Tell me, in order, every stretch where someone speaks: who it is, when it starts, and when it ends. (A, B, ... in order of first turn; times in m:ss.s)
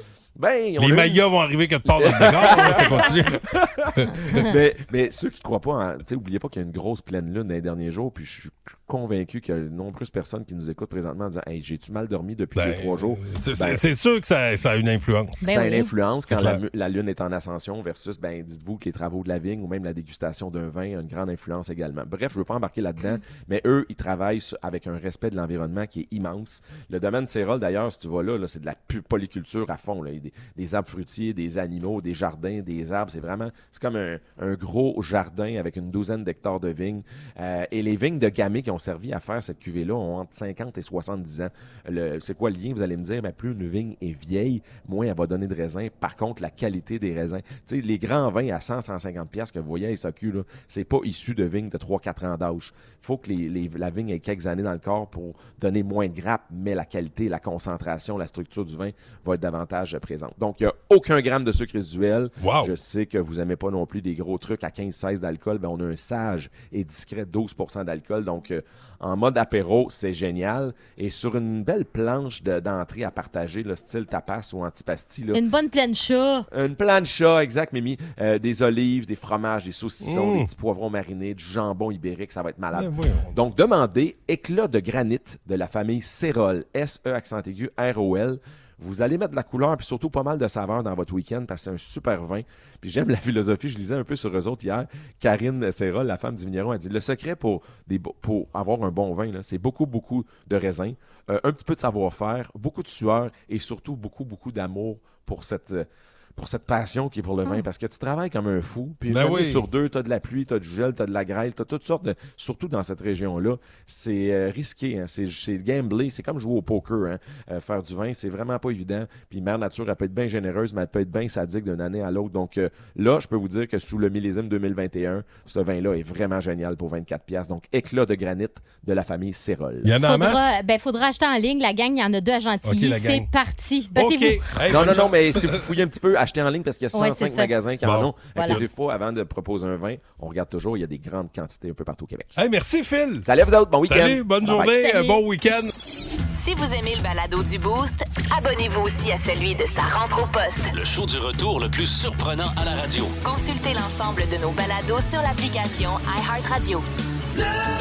0:00.4-0:01.2 A
0:00.8-0:04.5 B
0:01.9-0:13.8 A
0:04.1-0:04.5 C
0:12.6-0:15.4 B
0:15.4-0:15.9 C
0:15.4-1:15.4 A
0:16.3-0:16.6 B
1:02.4-1:02.7 B
1:15.3-1:16.4 C
1:16.5-2:10.0 A
1:20.0-1:20.5 B
1:22.7-1:23.4 B
1:49.1-1:49.6 B
2:09.8-2:10.6 B
2:10.0-2:14.8 C
2:12.6-2:13.3 B
2:13.9-2:15.7 B
2:14.7-2:22.4 A
2:16.9-2:17.5 C
2:17.8-2:18.7 B
2:18.4-2:18.6 C
2:22.4-2:23.3 B
2:23.2-2:24.7 A
2:23.9-2:25.7 B
2:24.5-2:25.2 C
2:26.3-2:30.7 D
2:30.7-2:33.2 E
2:33.2-2:36.9 D